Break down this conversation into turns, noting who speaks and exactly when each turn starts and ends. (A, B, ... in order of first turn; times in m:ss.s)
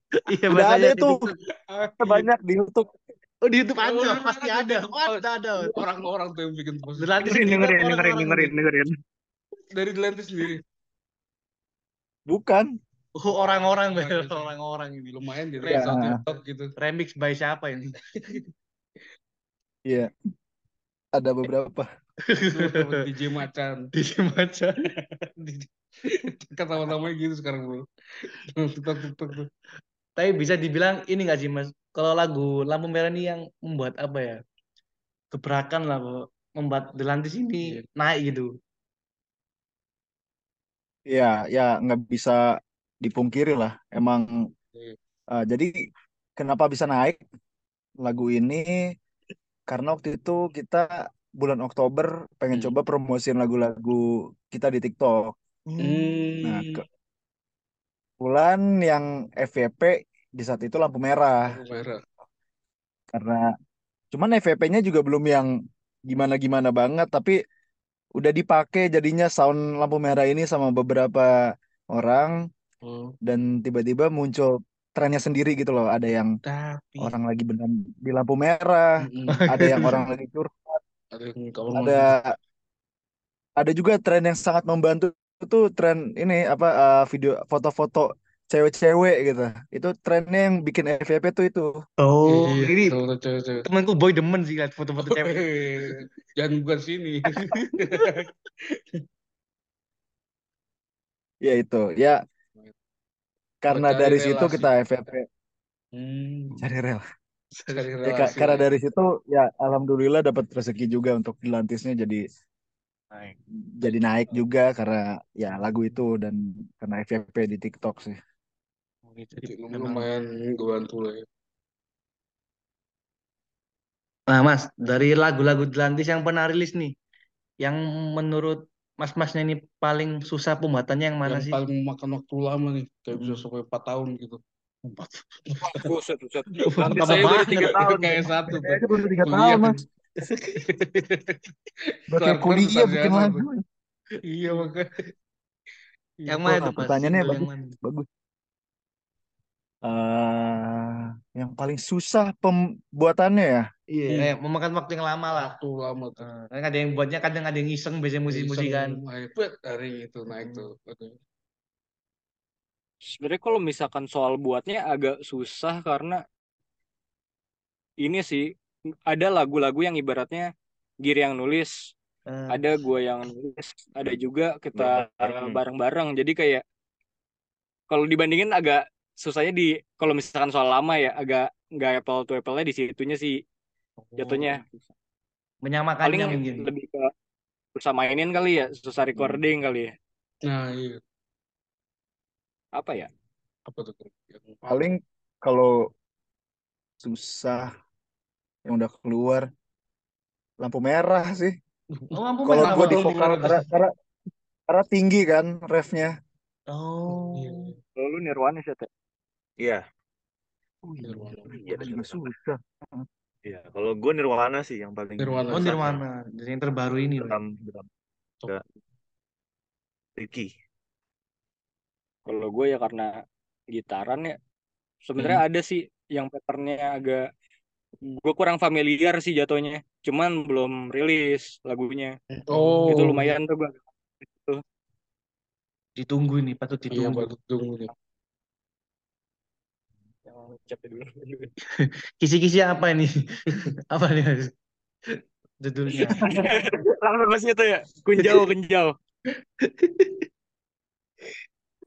0:00.2-0:01.3 A
0:00.5-0:01.3 B
0:01.7-0:02.3 C
0:02.0-0:02.9 B
0:03.4-0:05.8 A
0:03.8-0:07.6 C
0:07.0-0:08.5 A
0:07.2-0:08.9 D
0:09.7-0:10.6 C
0:12.3-0:12.7 B
0:13.2-0:16.1 A
0:13.9-0:14.5 C
0:15.1-0:16.7 C
0:15.6-0:16.2 B
0:16.8-0:18.4 A
0:21.1-0:21.8 B
0:22.2-0:23.0 A
0:22.5-0:23.9 C
0:24.0-0:24.9 A
0:24.9-0:29.5 C
0:30.2-0:34.4 A
0:35.3-0:38.5 A
0:41.1-0:42.4 B
0:43.0-0:44.4 B
0:45.3-0:45.7 B
0:46.4-0:47.2 B
0:48.0-0:48.7 B
0:49.7-0:55.3 B
0:52.5-0:52.8 C
0:55.7-0:56.3 A
0:55.8-0:56.8 C
0:56.4-0:56.8 B
0:58.2-1:01.5 B
1:01.5-1:02.0 C
1:03.1-1:03.5 B
1:04.1-1:05.5 B
1:06.1-1:07.3 B
1:08.2-1:11.3 B
1:11.9-1:12.4 B
1:12.8-1:13.1 C
1:13.2-1:16.4 B
1:16.5-1:16.9 C
1:16.6-1:17.1 A
1:17.0-1:18.9 B
1:19.0-1:20.0 C
1:19.3-1:20.0 A
1:19.5-1:20.8 B
1:21.1-1:22.2 C
1:21.7-1:22.3 B
1:23.6-1:31.7 B
1:32.0-1:33.0 A
1:32.2-1:33.7 C
1:33.6-1:35.9 A
1:35.0-1:39.0 C
1:37.4-1:38.1 A
1:41.4-1:42.2 B
1:43.6-1:45.2 B
1:43.7-1:44.7 C
1:45.9-1:46.6 C
1:46.6-1:47.0 B
1:47.6-1:48.3 A
1:47.7-1:48.7 C
1:48.0-1:52.2 B
1:53.8-1:58.2 B
1:59.1-2:00.0 A
1:59.4-2:01.2 C
2:04.3-2:06.9 A
2:07.6-2:11.6 A
2:11.2-2:14.4 C
2:13.1-2:13.4 A
2:14.8-2:15.9 A
2:15.6-2:18.1 D
2:16.6-2:18.6 A
2:16.8-2:19.8 C
2:18.6-2:19.8 B
2:20.2-2:20.6 A
2:20.5-2:23.4 C
2:22.1-2:23.6 B
2:24.3-2:24.9 C
2:24.5-2:24.8 A
2:26.2-2:27.4 C
2:26.3-2:27.7 A
2:26.4-2:28.0 B
2:29.8-2:33.7 B
2:33.9-2:35.6 A
2:35.3-2:36.3 C
2:36.2-2:39.0 A
2:38.3-2:41.2 C
2:40.3-2:40.7 A
2:43.1-2:46.2 D
2:48.0-2:48.5 D
2:49.1-2:50.5 D
2:51.0-2:51.9 D
2:52.3-2:52.7 A
2:52.5-2:56.6 D
2:54.7-2:55.6 E
2:57.9-3:03.4 D
3:04.0-3:04.5 A
3:04.2-3:04.6 D
3:05.6-3:06.7 A
3:06.0-3:07.1 D
3:07.8-3:09.9 D
3:10.4-3:11.0 C
3:12.8-3:13.1 D
3:13.7-3:14.6 C
3:14.6-3:15.9 B
3:17.0-3:17.7 B
3:18.6-3:19.5 B
3:20.6-3:21.6 B
3:22.0-3:23.3 A
3:22.1-3:23.6 C
3:22.4-3:23.9 B
3:24.7-3:26.1 B
3:26.7-3:27.7 A
3:27.1-3:27.7 C
3:28.0-3:28.9 D
3:29.6-3:29.8 E
3:30.8-3:31.9 A
3:31.0-3:31.5 C
3:31.5-3:32.3 E
3:31.7-3:33.0 B
3:33.4-3:36.0 E
3:35.2-3:35.8 C
3:35.5-3:37.4 A
3:37.2-3:37.9 E
3:40.2-3:40.5 E
3:42.2-3:43.1 D
3:43.7-3:44.3 D
3:45.0-3:47.3 D
3:48.2-3:52.1 D
3:52.5-3:53.3 C
3:52.9-3:54.6 D
3:56.0-3:57.3 A
3:56.9-3:57.9 C
4:00.3-4:01.5 D
4:01.7-4:04.5 A
4:05.6-4:06.5 A
4:06.1-4:08.9 D
4:09.6-4:10.2 A